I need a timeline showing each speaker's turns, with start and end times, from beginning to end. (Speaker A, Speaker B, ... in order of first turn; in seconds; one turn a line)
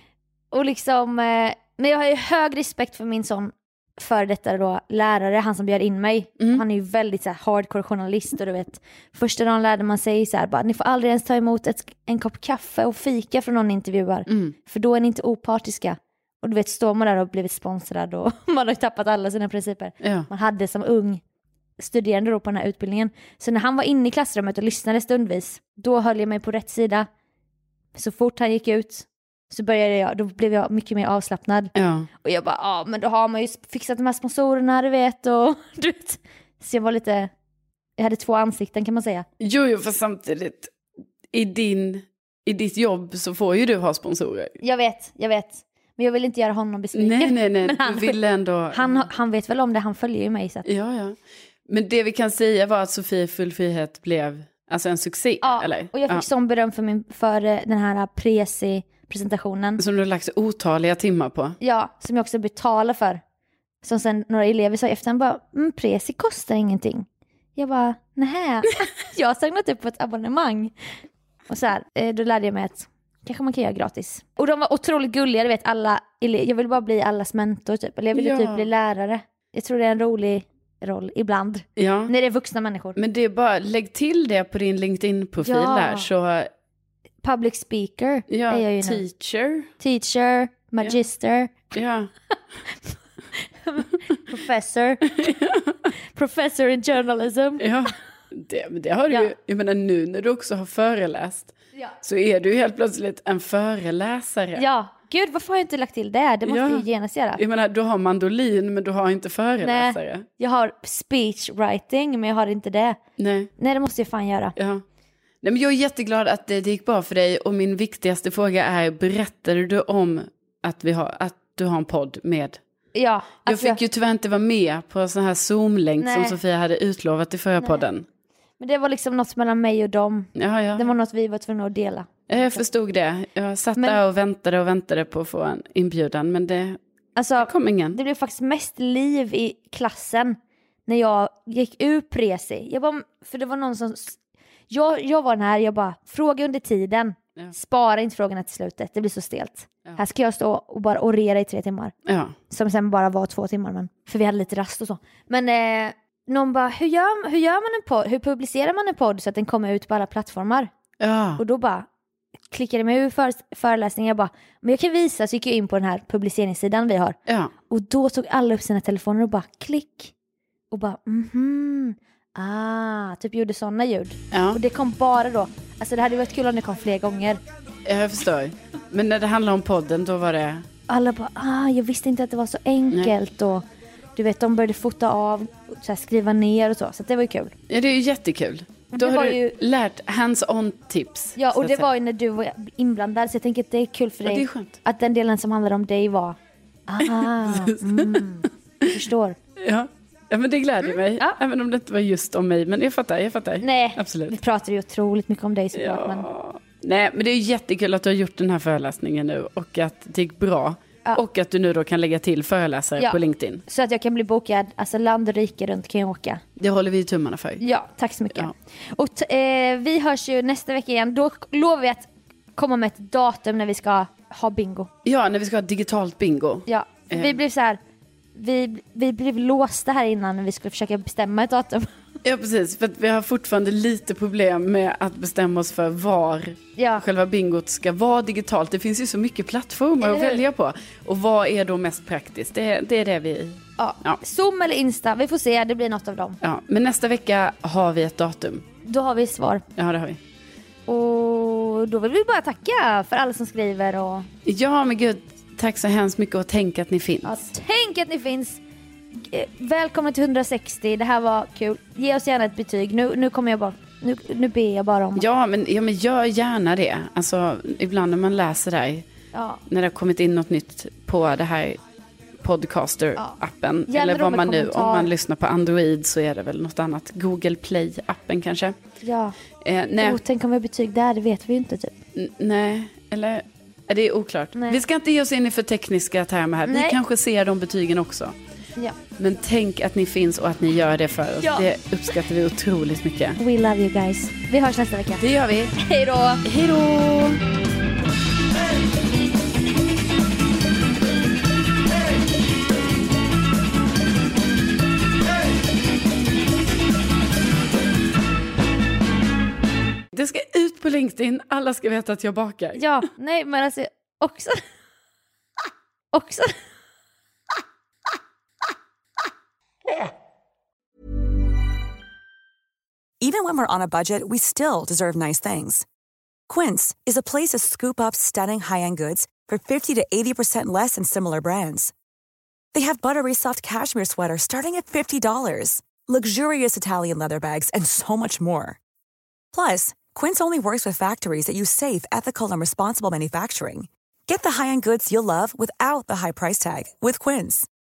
Speaker A: 0.5-21.2
Speaker B: 14.3-14.5
Speaker A: 21.8-27.1
Speaker A: 27.9-31.7
Speaker B: 31.8-32.1
Speaker A: 32.2-37.3
Speaker A: 38.0-39.3
Speaker B: 39.4-40.7
Speaker B: 41.3-44.5
Speaker A: 44.6-48.2
Speaker B: 47.0-49.1
Speaker A: 48.7-50.7
Speaker B: 50.7-51.2
Speaker B: 51.7-56.2
Speaker A: 55.4-59.8
Speaker B: 59.8-61.6
Speaker A: 61.6-63.2
Speaker A: 63.8-70.7
Speaker A: 71.5-83.0
Speaker B: 78.2-78.6
Speaker B: 81.8-82.1
Speaker B: 83.0-86.5
Speaker A: 85.4-86.1
Speaker A: 87.2-89.0
Speaker B: 88.3-89.7
Speaker A: 89.8-91.7
Speaker B: 91.7-92.1
Speaker A: 93.6-95.1
Speaker B: 95.2-95.9
Speaker A: 96.2-97.7
Speaker B: 97.6-104.7
Speaker A: 104.5-107.4
Speaker B: 106.5-106.8
Speaker B: 107.4-110.3
Speaker A: 109.6-113.0
Speaker B: 113.2-113.5
Speaker A: 113.6-114.5
Speaker B: 114.6-114.8
Speaker B: 115.4-122.6
Speaker A: 123.0-123.8
Speaker B: 123.5-128.1
Speaker A: 126.0-126.4
Speaker A: 128.6-132.6
Speaker B: 130.4-130.9
Speaker B: 132.3-136.8
Speaker A: 137.2-144.2
Speaker B: 137.4-138.0
Speaker A: 144.7-151.9
Speaker B: 152.1-152.4
Speaker A: 152.5-160.7
Speaker B: 161.0-161.4
Speaker A: 161.4-161.9
Speaker A: 162.5-167.2
Speaker B: 167.3-167.5
Speaker A: 167.7-170.1
Speaker A: 170.7-177.4
Speaker B: 174.3-174.6
Speaker B: 177.9-180.7
Speaker A: 180.9-183.6
Speaker A: 184.2-187.6
Speaker B: 187.7-191.9
Speaker A: 188.9-189.6
Speaker A: 191.4-196.4
Speaker B: 194.3-194.8
Speaker A: 196.9-199.4
Speaker B: 197.1-198.2
Speaker B: 199.6-204.4
Speaker A: 203.6-206.3
Speaker B: 205.8-213.6
Speaker A: 213.0-216.4
Speaker B: 216.6-217.6
Speaker A: 217.6-224.9
Speaker B: 225.1-227.4
Speaker A: 226.7-227.8
Speaker A: 228.3-231.9
Speaker B: 232.2-244.2
Speaker A: 236.8-237.0
Speaker A: 240.0-240.4
Speaker A: 243.8-246.4
Speaker B: 246.4-248.6
Speaker A: 248.9-249.6
Speaker B: 249.8-250.2
Speaker A: 250.9-254.3
Speaker B: 254.5-257.4
Speaker A: 257.2-258.6
Speaker A: 259.2-265.2
Speaker B: 265.2-269.1
Speaker A: 269.3-269.6
Speaker B: 269.7-271.8
Speaker B: 272.4-278.8
Speaker A: 273.9-275.1
Speaker A: 279.0-279.4
Speaker B: 279.6-280.2
Speaker A: 280.0-282.0
Speaker B: 282.2-288.4
Speaker A: 284.6-284.8
Speaker A: 286.7-287.0
Speaker B: 289.2-293.4
Speaker A: 293.4-295.2
Speaker B: 295.2-295.8
Speaker A: 295.8-296.5
Speaker B: 296.5-297.3
Speaker B: 310.1-312.8
Speaker A: 312.8-314.6
Speaker A: 316.1-316.5
Speaker C: 323.2-325.9
Speaker C: 326.5-331.9
Speaker C: 332.7-338.8
Speaker C: 339.5-347.7